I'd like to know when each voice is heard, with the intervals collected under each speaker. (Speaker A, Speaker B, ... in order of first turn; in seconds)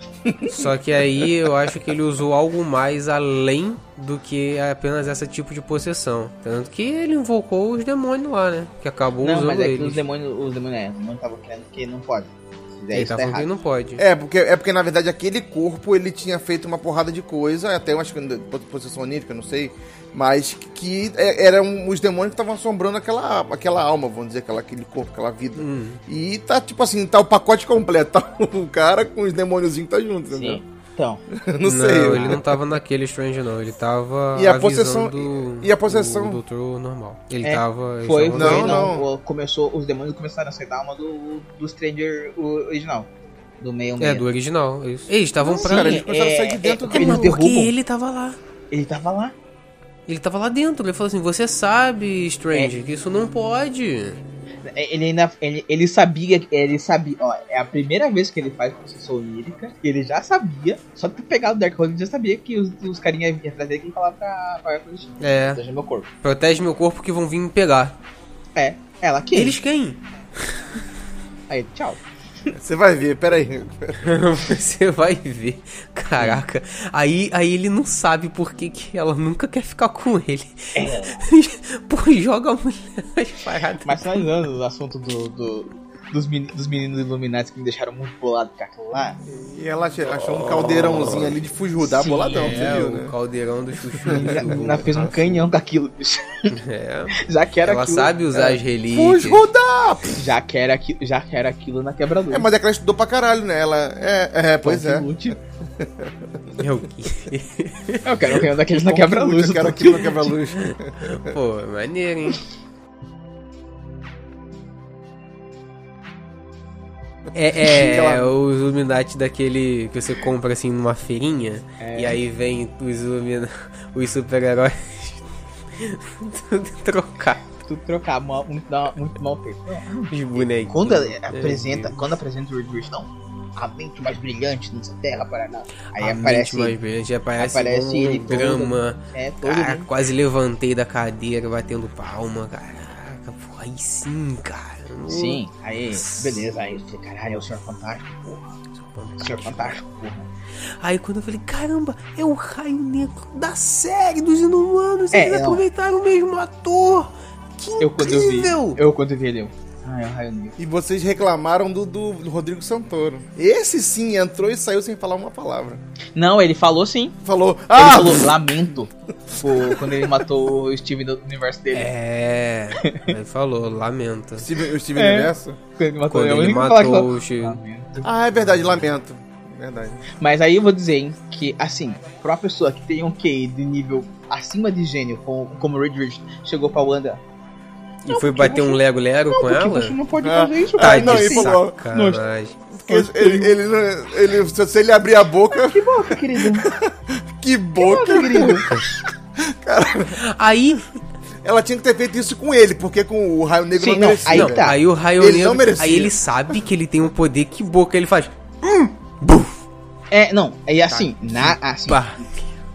Speaker A: 0.3-0.5, 9.2-13.5, 30.3-31.2, 32.1-32.4, 37.4-43.1, 43.6-44.3, 45.5-47.7, 48.7-49.4, 54.6-66.1, 68.6-69.6, 71.5-72.5, 80.8-81.2, 83.8-89.2, 91.8-92.6, 94.1-96.6, 97.2-98.6, 100.2-102.5, 104.6-105.4, 108.0-110.3, 121.8-122.2, 127.7-136.8, 137.4-139.9, 145.1-148.6, 149.2-150.3, 155.1-155.7, 157.8-160.6, 166.2-167.2, 167.7-171.9, 172.8-173.1, 174.9-178.1, 180.2-187.2, 188.1-192.2, 192.9-193.6, 195.5-196.7, 197.8-198.8, 203.8-204.8, 210.1-212.2
Speaker B: 0.5-10.0, 12.9-14.0, 25.6-26.0, 31.6-38.9, 44.0-46.0, 46.9-48.4, 50.1-54.2, 65.2-65.6, 66.2-68.0, 69.3-70.6, 74.0-84.3, 90.2-91.4, 92.3-95.0, 96.5-99.4, 106.6-108.5, 110.5-112.4, 117.3-127.5, 130.1-132.1, 136.0-145.4, 145.9-146.4, 148.7-149.8, 150.7-158.8, 171.7-174.6, 176.1-177.6, 188.0-190.0, 190.8-192.6, 200.1-201.1, 204.3-209.6, 210.9-212.5
Speaker C: 14.0-30.6, 31.3-32.6, 34.4-36.4, 38.3-39.1, 45.4-47.4, 72.5-74.2, 89.3-93.1, 93.9-95.1, 98.9-100.2, 102.3-105.1, 105.8-106.6, 108.7-111.3, 117.6-118.3, 160.6-165.8, 167.2-168.4, 169.3-170.1, 174.4-175.6, 178.0-180.0, 190.2-191.8, 192.8-200.2, 201.4-206.2